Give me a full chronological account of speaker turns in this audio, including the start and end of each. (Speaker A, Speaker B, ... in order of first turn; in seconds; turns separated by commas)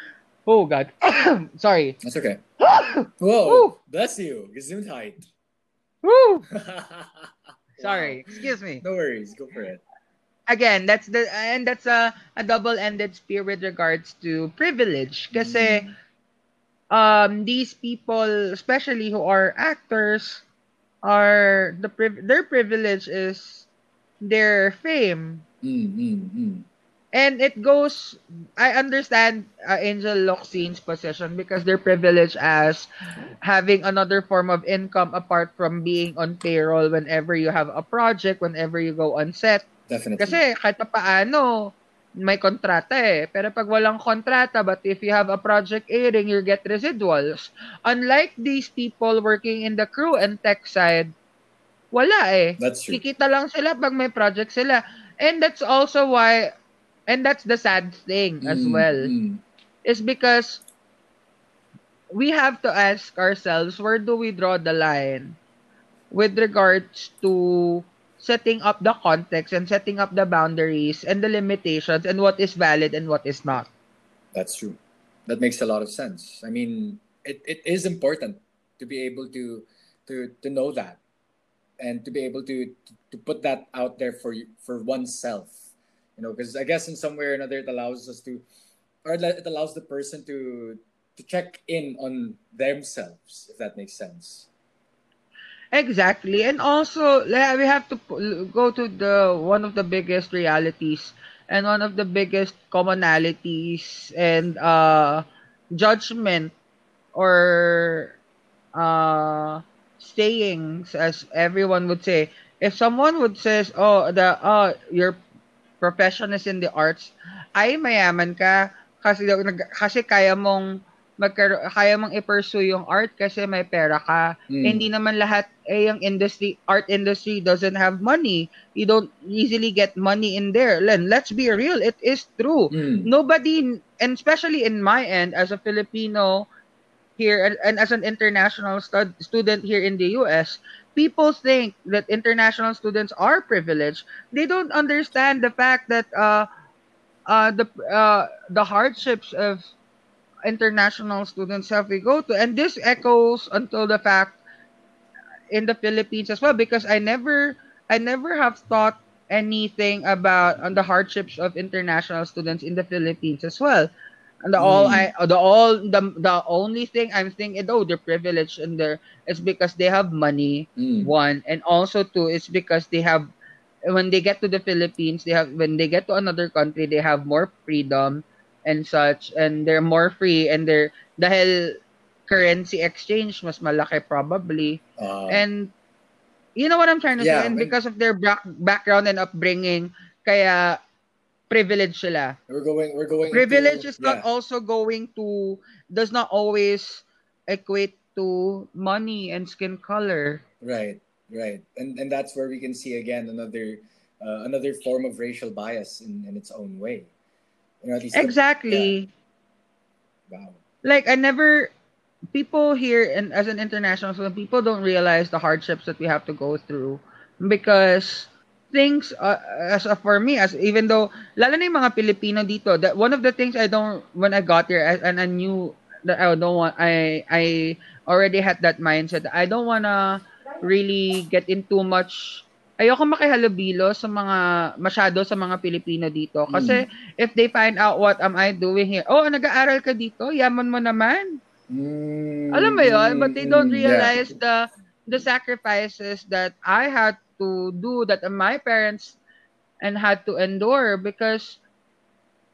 Speaker A: 0.5-2.0, Speaker B: 2.0-2.4, Speaker A: 2.6-3.7, Speaker B: 3.2-5.3, Speaker A: 6.0-6.5, Speaker B: 6.5-9.8, Speaker A: 7.8-8.8, Speaker A: 10.5-15.9, Speaker B: 15.3-15.9, Speaker A: 16.9-20.4, Speaker A: 21.0-23.7, Speaker A: 24.2-25.4, Speaker B: 25.6-26.7, Speaker A: 27.1-32.9, Speaker A: 33.4-39.7, Speaker B: 39.9-40.4, Speaker A: 40.2-51.1, Speaker A: 51.9-56.5, Speaker B: 52.6-53.0, Speaker A: 57.1-59.1, Speaker B: 58.4-59.4, Speaker A: 59.8-60.6, Speaker A: 62.1-65.4, Speaker A: 66.1-73.7, Speaker B: 74.3-81.0, Speaker B: 81.8-85.6, Speaker B: 86.2-88.4, Speaker B: 89.0-94.5, Speaker A: 95.7-106.5, Speaker A: 107.1-108.2, Speaker A: 108.7-115.2, Speaker A: 115.8-136.5, Speaker B: 124.5-124.8, Speaker B: 132.7-133.1, Speaker A: 137.2-146.5, Speaker A: 147.3-149.7, Speaker A: 150.4-154.4, Speaker A: 155.5-163.9, Speaker A: 164.4-173.3, Speaker B: 164.6-165.1, Speaker B: 170.8-171.1, Speaker A: 173.9-185.7, Speaker B: 185.0-185.4, Speaker A: 186.6-190.8, Speaker B: 187.2-187.8, Speaker A: 191.5-192.4, Speaker B: 192.5-194.2, Speaker A: 193.3-200.4, Speaker B: 200.6-207.1, Speaker B: 207.8-208.9, Speaker A: 208.1-209.1, Speaker B: 210.3-210.6, Speaker A: 210.8-211.7, Speaker A: 212.3-241.4, Speaker B: 236.5-236.8, Speaker B: 241.7-244.2, Speaker A: 242.5-249.2, Speaker A: 249.8-251.6